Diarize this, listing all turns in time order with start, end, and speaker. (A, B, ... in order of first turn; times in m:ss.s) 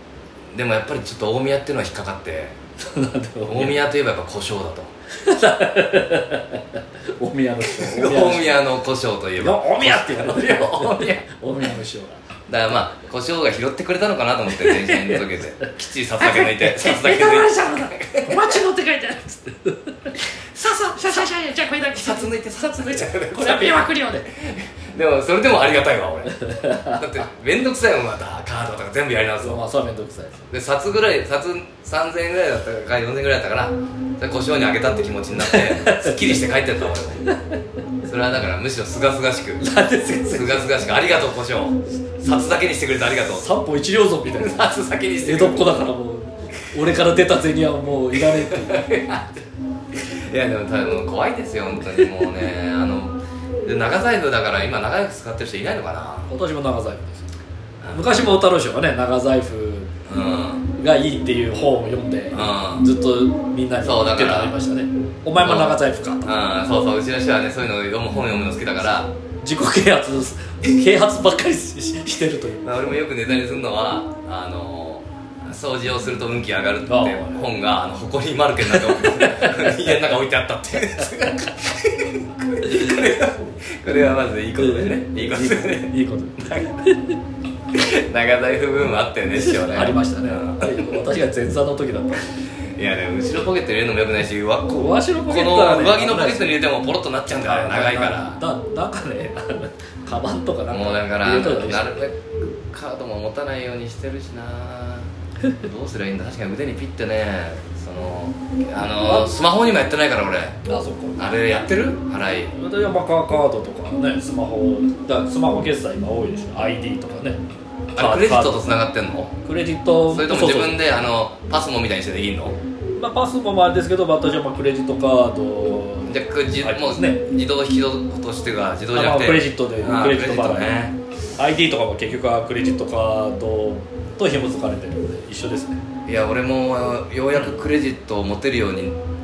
0:00.5-0:02.6 A
0:02.8-0:03.8 B
0:03.5-0:04.9 A
0:05.2-0:08.6 B
0:07.6-0:11.2 A
0:09.4-0:12.2 B
0:12.5-0:18.6 A
0:14.5-0:24.3 B
0:20.6-0:26.4 A
0:26.4-0:27.1 B
0:26.9-0:29.6 A
0:29.4-0:30.4 B
0:30.5-0:37.3 A
0:35.4-0:36.4 B
0:38.1-0:39.7 A
0:39.6-0:41.2 B
0:40.3-0:43.5 A
0:43.2-0:49.2 B
0:44.3-0:45.9 A
0:48.2-0:49.2 A
0:50.0-0:56.3 A
0:56.3-0:57.2 B
0:57.8-0:58.1 A
0:57.9-0:59.9 B
1:00.1-1:00.6 A
1:00.8-1:06.3 B
1:02.3-1:02.9 A
1:03.8-1:04.6 A
1:05.4-1:09.1 A
1:09.4-1:12.6 B
1:12.6-1:25.9 A
1:16.9-1:17.5 B
1:18.7-1:19.7 B
1:22.6-1:23.0 B
1:24.6-1:27.1 B
1:27.7-1:30.8 A
1:29.3-1:32.4 B
1:32.8-1:38.4 A
1:34.8-1:36.6 B
1:37.4-1:41.9 B
1:40.7-1:42.2 A
1:42.7-1:50.6 A
1:49.0-1:49.3 B
1:50.7-1:51.4 B
1:51.2-1:52.5 A
1:52.5-1:57.4 B
1:58.0-1:59.3 A
1:58.0-1:58.8 B
1:59.4-2:00.8 B
2:00.1-2:02.6 A
2:03.0-2:07.2 B
2:06.1-2:11.0 A
2:08.9-2:10.8 B
2:11.4-2:15.8 B
2:16.1-2:19.0 A